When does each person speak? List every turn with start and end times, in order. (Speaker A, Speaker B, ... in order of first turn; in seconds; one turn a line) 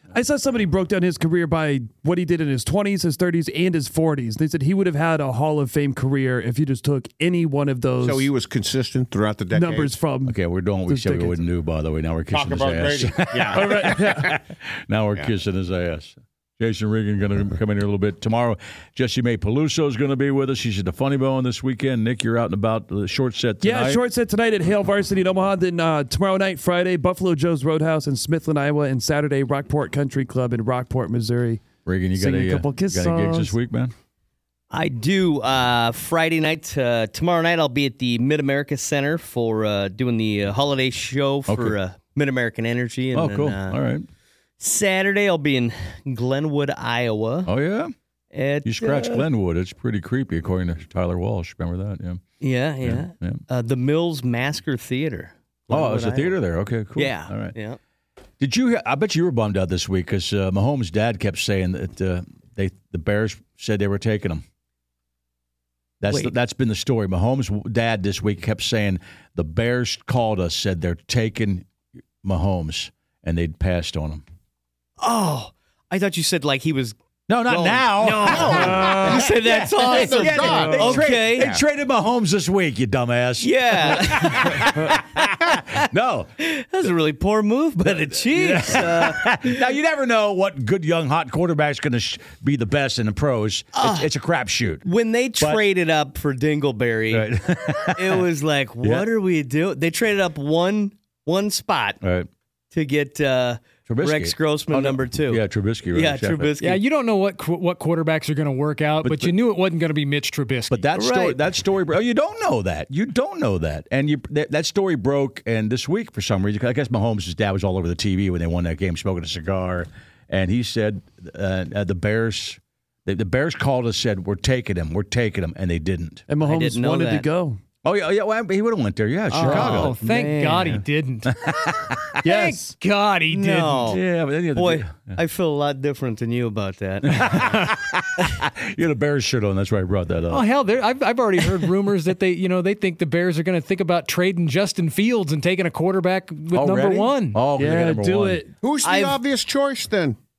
Speaker A: 0.1-8.3
Speaker B: 8.0-10.0
Speaker A: 9.5-10.4
Speaker C: 10.2-24.0
Speaker A: 10.9-11.4
Speaker B: 12.3-14.4
Speaker A: 13.5-14.3
Speaker A: 23.6-31.7
Speaker C: 31.9-33.9
Speaker A: 32.2-33.5
Speaker D: 34.7-43.8
Speaker C: 41.5-41.8
Speaker C: 43.1-44.1
Speaker D: 44.6-47.5
Speaker C: 47.5-47.9
Speaker D: 48.3-49.3
Speaker C: 48.6-52.2
Speaker D: 52.4-56.4
Speaker C: 52.8-53.4
Speaker C: 55.7-57.5
Speaker D: 57.0-57.8
Speaker C: 58.4-64.4
Speaker C: 66.0-71.7
Speaker D: 66.1-66.3
Speaker C: 72.2-74.2
Speaker D: 75.0-81.6
Speaker C: 77.3-86.3
Speaker B: 78.2-81.6
Speaker A: 78.3-79.2
Speaker A: 80.4-80.7
Speaker D: 83.4-85.0
Speaker D: 86.4-89.6
Speaker C: 88.2-94.8
Speaker D: 93.8-94.1
Speaker D: 94.8-102.0
Speaker C: 97.1-98.2
Speaker C: 102.0-102.3
Speaker D: 102.7-106.8
Speaker C: 103.9-106.5
Speaker E: 106.6-110.9
Speaker C: 109.0-109.3
Speaker C: 110.7-126.2
Speaker D: 111.0-111.4
Speaker A: 126.3-127.6
Speaker D: 126.4-127.3
Speaker C: 127.8-130.0
Speaker D: 129.3-130.8
Speaker E: 129.4-131.7
Speaker C: 131.3-132.2
Speaker A: 132.2-132.8
Speaker E: 132.2-133.9
Speaker D: 133.3-134.0
Speaker C: 133.9-135.2
Speaker D: 134.5-137.4
Speaker C: 137.1-140.5
Speaker E: 140.3-147.4
Speaker C: 146.5-148.4
Speaker A: 147.6-148.5
Speaker B: 148.6-150.2
Speaker D: 148.8-149.2